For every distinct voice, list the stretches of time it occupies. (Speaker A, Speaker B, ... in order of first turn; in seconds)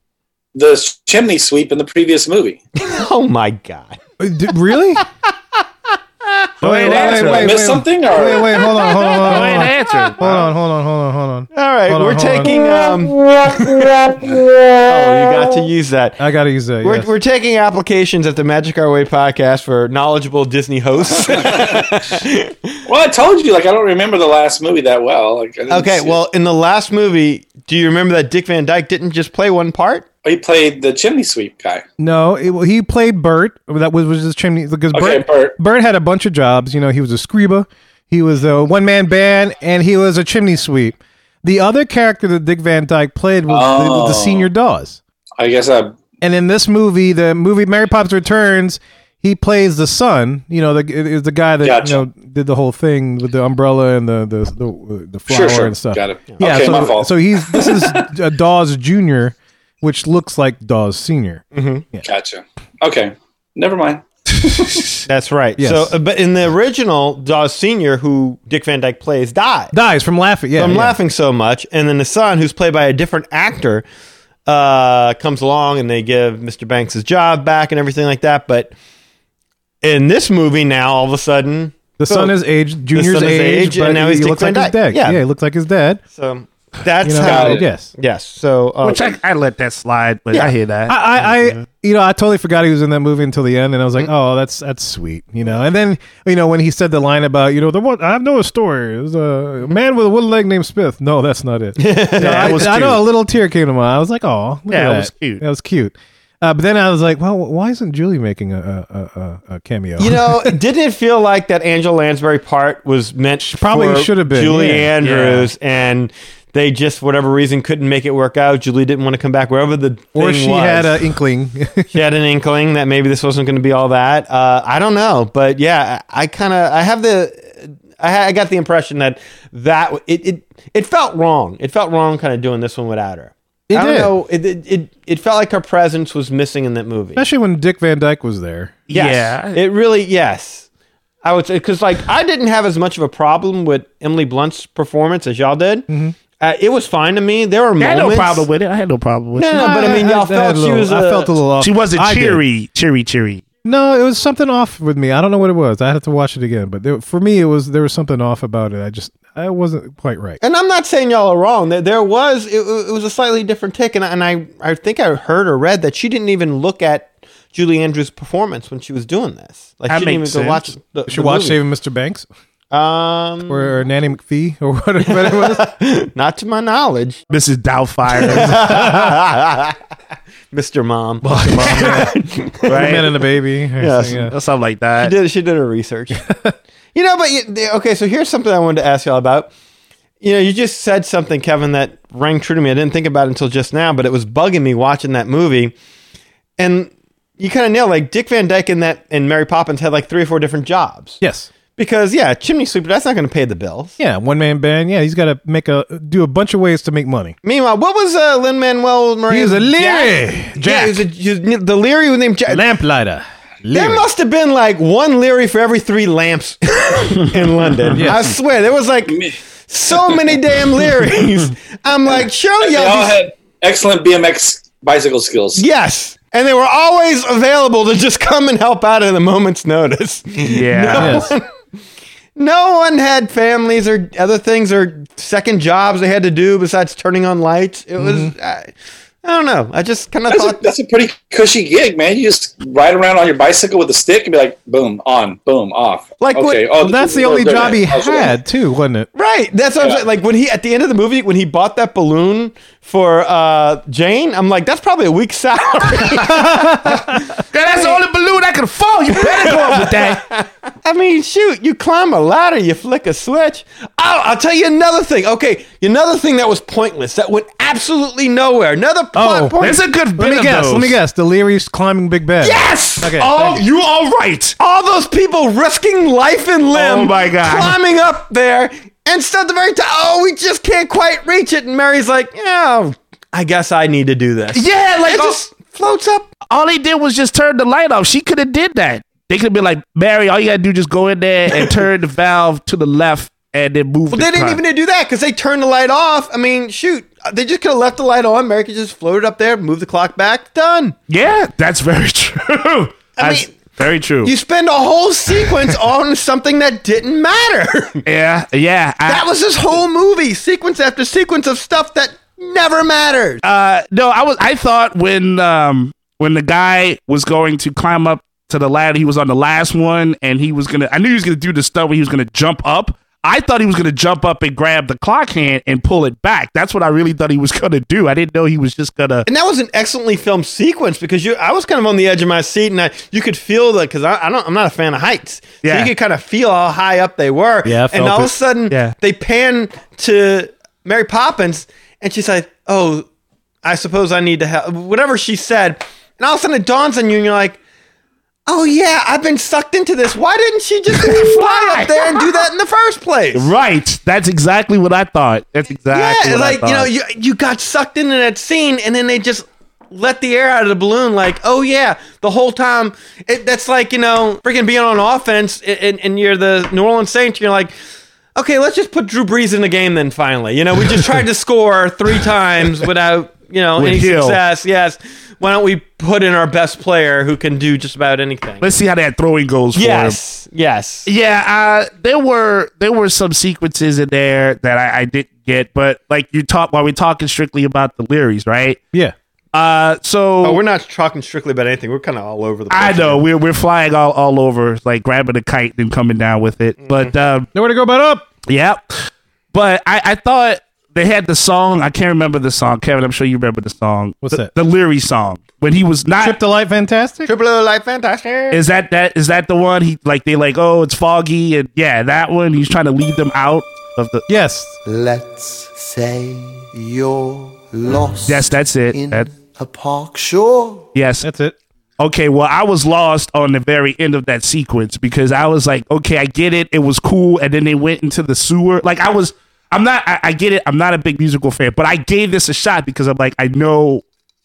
Speaker A: 0.6-2.6, 6.8-9.0, 21.1-21.9, 22.9-26.2, 30.2-31.8, 34.9-35.6, 43.5-44.5, 45.4-46.0, 51.6-52.0, 55.3-58.1, 62.0-64.9, 87.2-87.7, 219.1-219.4, 222.6-225.6, 240.3-248.3
Speaker B: 2.8-4.0, 8.7-10.4, 11.5-14.2, 14.8-16.2, 16.8-22.7, 25.7-30.1, 56.3-56.8, 61.5-61.9, 65.1-69.7, 70.5-73.9, 74.5-78.7, 79.8-82.4, 82.9-85.2, 86.1-89.1, 91.2-91.6, 101.8-102.7, 110.0-121.2, 121.9-137.2, 138.9-140.7, 141.2-145.9, 146.4-148.5, 149.4-151.4, 160.4-171.6, 172.7-173.7, 175.0-177.2, 178.1-179.8, 180.5-183.1, 183.8-184.3, 185.0-186.2, 186.9-189.5, 190.2-195.8, 196.6-201.2, 201.8-204.0, 207.4-212.7, 213.7-223.2, 225.6-231.4, 232.4-238.7, 239.2-240.7, 246.2-246.7, 249.2-258.0, 259.1-269.8, 272.4-273.6, 274.6-286.3, 291.5-291.8, 294.1-301.0, 303.2-303.5, 304.2-308.0, 309.1-313.4, 329.3-343.1, 343.6-347.6, 348.5-353.5, 355.9-367.7, 368.4-378.7, 379.8-381.1, 390.4-393.2, 407.3-408.6
Speaker C: 4.2-5.0, 6.6-12.6, 16.2-17.1, 32.0-45.0, 46.2-62.1, 65.6-66.0, 69.7-71.0, 82.0-86.0, 87.0-87.9, 90.9-110.5, 113.4-114.9, 120.2-121.9, 133.7-134.1, 137.2-138.7, 145.9-146.2, 149.6-152.4, 153.6-160.4, 171.1-172.3, 173.5-175.7, 178.6-179.1, 181.2-184.3, 186.3-186.5, 201.2-201.5, 204.0-207.4, 209.3-211.0, 212.5-214.1, 217.9-218.2, 231.0-231.3, 238.0-238.3, 246.8-249.1, 256.2-257.2, 269.1-269.6, 270.2-273.3, 337.6-338.3, 397.6-398.3, 404.2-404.5, 406.2-407.3, 414.3-414.8, 421.2-421.6
Speaker D: 6.6-7.5, 9.2-10.4, 88.8-91.0, 102.2-103.0, 104.7-105.4, 115.0-115.5, 138.9-139.6, 147.8-150.0, 151.6-153.4, 169.9-170.6, 177.3-178.7, 182.7-183.1, 184.3-185.1, 230.5-231.3, 257.5-260.2, 269.6-271.0, 272.5-274.6, 276.7-277.8, 284.5-285.4, 286.5-294.6, 301.1-304.3, 308.1-309.2, 313.4-329.3, 335.6-335.9, 350.9-352.3, 353.3-356.9, 373.8-374.4, 378.6-380.2, 381.1-388.8, 389.5-390.6, 392.7-397.5, 398.5-406.4, 408.5-414.2, 418.2-419.3, 420.9-421.2, 422.0-434.0
Speaker E: 414.8-420.9